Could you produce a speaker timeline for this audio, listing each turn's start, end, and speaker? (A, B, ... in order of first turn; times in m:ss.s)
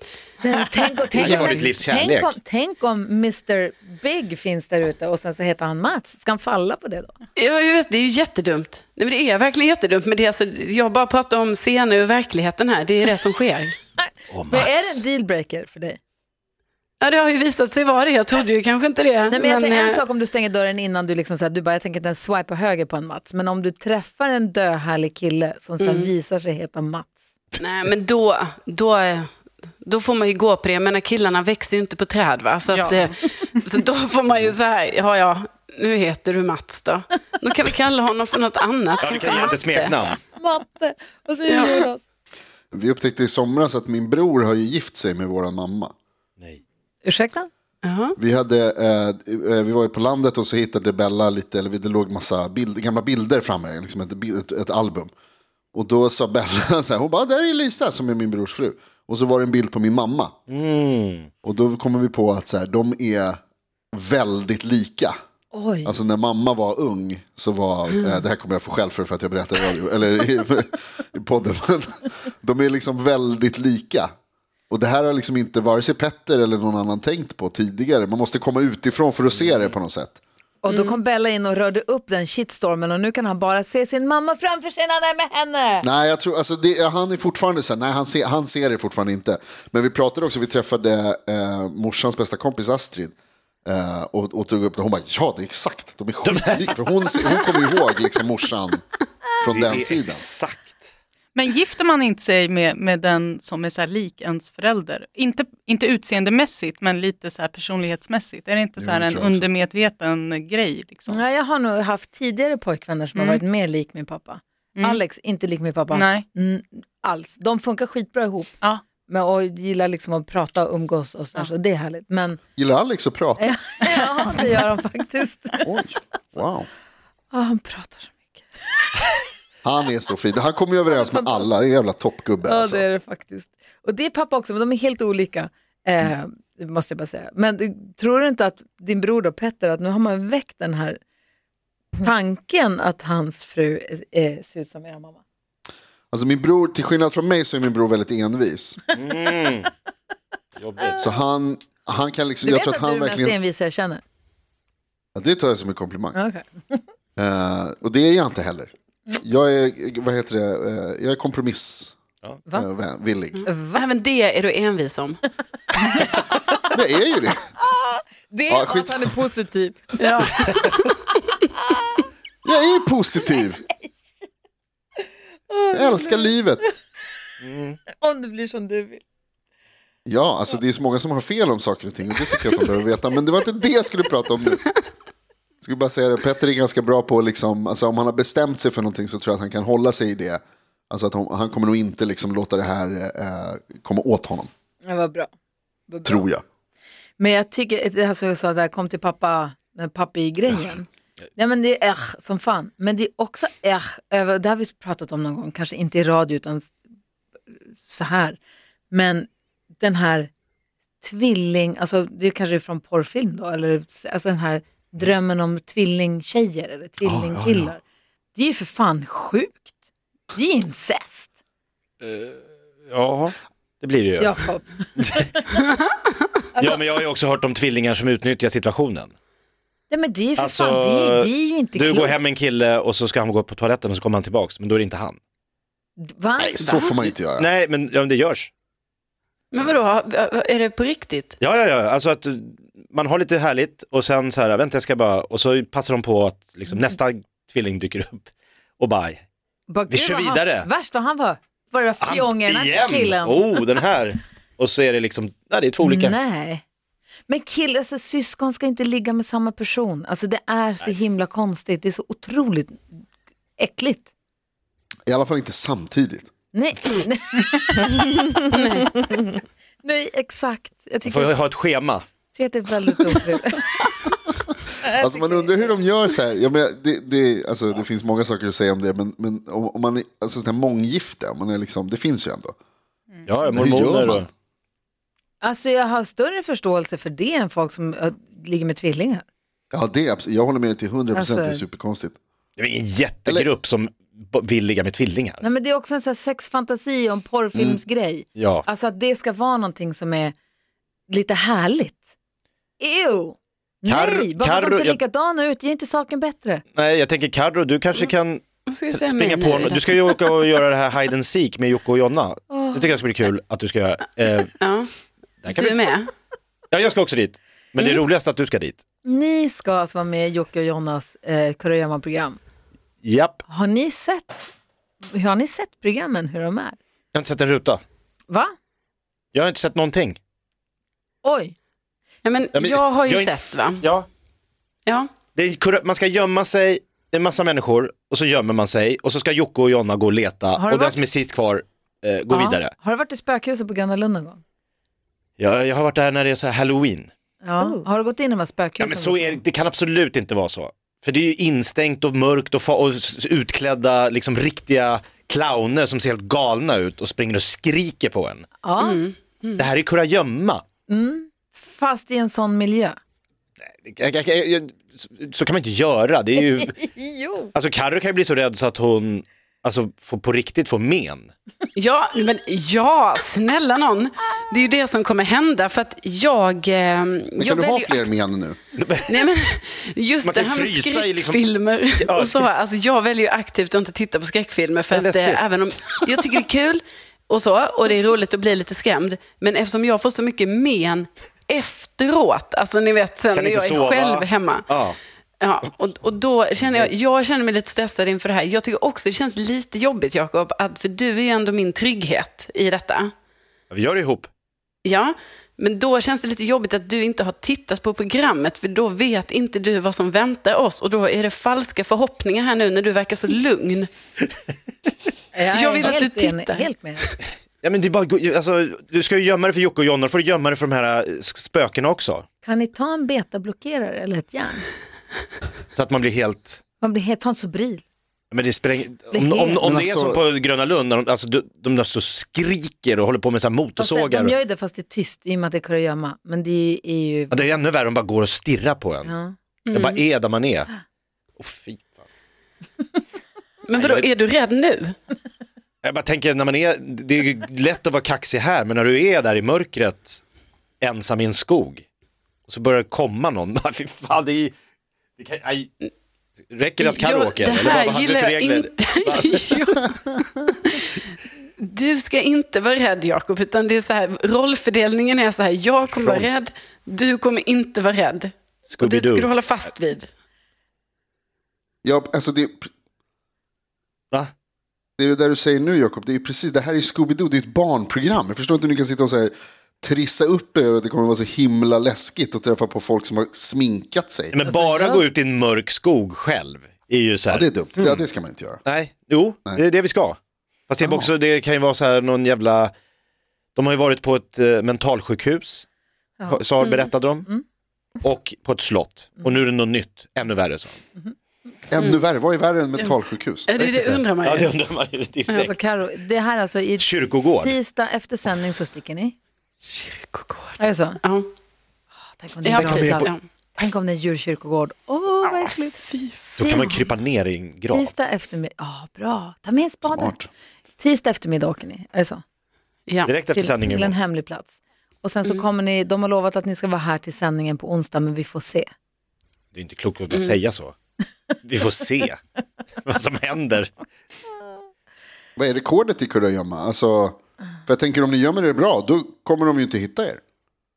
0:00.4-0:07.2 A
0:01.1-0:02.4 B
0:01.2-0:01.6 C
0:07.4-0:13.7 C
0:14.0-0:16.0 A
0:14.3-0:15.0 B
0:17.0-0:20.0 C
0:19.3-0:27.2 A
0:25.8-0:26.1 C
0:27.6-0:29.3 C
0:29.8-0:40.0 C
0:32.7-0:33.0 D
0:39.0-0:40.2 B
0:40.4-0:42.0 A
0:41.5-0:41.8 C
0:42.7-0:45.9 E
0:46.4-0:46.6 B
0:47.0-0:47.5 A
0:47.8-0:48.2 C
0:48.2-0:55.1 E
0:55.7-1:00.3 E
1:00.5-1:01.3 B
1:01.4-1:03.4 E
1:03.9-1:05.2 E
1:05.5-1:05.9 A
1:05.8-1:14.1 E
1:08.0-1:08.2 C
1:14.7-1:20.2 E
1:20.6-1:25.8 A
1:20.7-1:21.0 C
1:25.8-1:33.2 E
1:33.7-1:38.8 E
1:36.2-1:37.2 B
1:39.4-1:40.2 E
1:39.5-1:40.7 B
1:41.3-1:51.2 D
1:48.8-1:49.5 E
1:51.1-1:58.5 A
1:55.9-1:56.2 D
1:59.1-2:02.4 A
2:02.6-2:03.4 E
2:03.4-2:05.6 A
2:05.6-2:06.7 E
2:07.3-2:08.9 A
2:09.6-2:12.8 E
2:10.9-2:11.5 A
2:12.4-2:21.0 A
2:22.0-2:25.2 A
2:26.1-2:28.8 E
2:28.9-2:29.7 B
2:30.6-2:31.0 B
2:31.0-2:33.4 E
2:32.4-2:34.0 A
2:35.2-2:36.2 E
2:36.2-2:36.8 A
2:37.2-2:42.0 E
2:42.5-2:43.4 E
2:43.3-2:45.2 C
2:43.5-2:43.8 A
2:46.0-2:46.3 A
2:46.7-2:47.5 E
2:47.7-2:49.9 A
2:48.5-2:49.1 E
2:50.0-2:51.1 C
2:52.4-2:53.6 E
2:55.5-2:56.3 A
2:55.7-2:56.7 E
2:57.4-2:57.8 B
2:57.9-2:59.0 A
3:00.1-3:04.6 E
3:05.6-3:14.5 E
3:14.8-3:15.3 A
3:15.9-3:16.2 A
3:16.0-3:16.4 E
3:17.2-3:26.7 A
3:27.7-3:28.4 A
3:28.9-3:29.3 A
3:29.8-3:30.3 A
3:31.0-3:37.8 A
3:37.0-3:37.7 E
3:38.3-3:39.7 A
3:40.3-3:41.3 A
3:42.0-3:45.4 B
3:44.2-3:45.3 A
3:45.6-3:46.2 C
3:46.6-3:49.1 B
3:49.9-3:52.2 A
3:50.4-3:55.2 B
3:56.0-3:56.8 A
3:56.4-3:57.5 E
3:56.6-3:57.0 C
3:57.0-3:58.5 B
3:59.5-4:01.4 C
4:01.4-4:09.2 B
4:09.7-4:13.6 A
4:09.9-4:10.7 B
4:12.0-4:16.2 B
4:15.8-4:16.6 A
4:17.3-4:22.8 A
4:23.6-4:24.1 A
4:25.1-4:26.3 E
4:26.5-4:31.3 A
4:28.5-4:28.9 C
4:31.0-4:32.0 B
4:32.3-4:33.6 A
4:34.8-4:35.8 A
4:35.0-4:42.5 E
4:43.2-4:44.3 B
4:43.5-4:44.3 E
4:45.4-4:49.2 A
4:49.7-4:52.2 E
4:51.1-4:51.6 A
4:52.6-4:55.4 B
4:55.4-5:00.3 A
4:57.5-4:57.8 E
4:58.4-4:58.6 B
5:01.1-5:02.1 A
5:02.8-5:06.6 A
5:03.8-5:05.0 B
5:06.8-5:14.5 B
5:08.6-5:10.4 C
5:12.5-5:12.9 A
5:14.6-5:14.9 C
5:15.4-5:15.8 B
5:15.5-5:16.0 C
5:16.7-5:18.8 B
5:17.8-5:18.0 C
5:19.0-5:22.4 A
5:23.0-5:23.4 B
5:23.5-5:24.4 A
5:25.1-5:26.8 A
5:27.1-5:27.8 B
5:29.3-5:30.2 B
5:31.2-5:31.5 A
5:32.2-5:33.8 C
5:32.5-5:34.1 B
5:34.9-5:35.2 C
5:35.3-5:42.7 B
5:40.6-5:41.0 A
5:42.3-5:44.4 A
5:45.4-5:47.1 B
5:47.4-5:49.4 A
5:48.8-5:58.5 B
5:58.6-5:59.0 A
5:58.8-5:59.7 C
5:59.6-6:00.6 B
6:00.9-6:03.0 A
6:03.6-6:06.8 B
6:06.5-6:07.5 A
6:07.5-6:11.3 B
6:11.8-6:18.1 C
6:17.4-6:18.6 E
6:18.8-6:19.2 B
6:19.1-6:34.7 C
6:20.2-6:21.4 B
6:22.0-6:22.4 B
6:24.9-6:25.5 B
6:33.3-6:35.0 B
6:35.4-6:43.1 C
6:36.6-6:36.9 B
6:43.7-6:44.3 B
6:44.8-6:53.9 C
6:55.3-6:57.1 A
6:55.5-6:57.2 C
6:57.6-7:02.2 B
7:02.4-7:04.6 A
7:05.7-7:06.6 B
7:06.8-7:07.8 A
7:08.3-7:14.4 B
7:09.1-7:09.6 A
7:09.6-7:10.2 E
7:13.8-7:17.6 A
7:17.3-7:19.1 B
7:19.0-7:19.3 A
7:19.7-7:20.0 C
7:19.7-7:20.7 B
7:21.4-7:21.9 B
7:23.7-7:24.9 C
7:23.7-7:24.1 B
7:25.8-7:30.2 B
7:30.8-7:31.8 B
7:32.5-7:34.5 B
7:35.2-7:35.7 B
7:36.5-7:39.5 B
7:36.8-7:40.9 C
7:41.6-7:50.1 C
7:48.7-7:49.3 B
7:51.8-7:52.7 E
7:55.0-8:04.4 E
8:04.3-8:08.0 B
8:04.4-8:05.0 A
8:07.3-8:08.6 E
8:08.6-8:12.7 B
8:10.8-8:11.1 E
8:13.5-8:15.6 B
8:16.2-8:17.3 B
8:18.0-8:20.8 B
8:21.7-8:23.5 E
8:23.5-8:24.5 C
8:23.6-8:25.5 B
8:25.4-8:29.1 A
8:26.8-8:27.5 B
8:29.7-8:31.3 C
8:30.6-8:31.0 A
8:32.1-8:35.8 A
8:32.4-8:33.2 C
8:32.5-8:33.1 B
8:36.4-8:37.9 B
8:36.4-8:36.9 A
8:37.7-8:40.1 A
8:39.8-8:40.3 E
8:40.8-8:42.2 A
8:42.9-8:43.1 C
8:43.0-8:44.0 B
8:43.3-8:48.7 A
8:49.5-8:50.7 B
8:50.1-8:50.4 C
8:51.4-8:52.2 B
8:52.8-8:53.7 B
8:55.4-9:00.2 E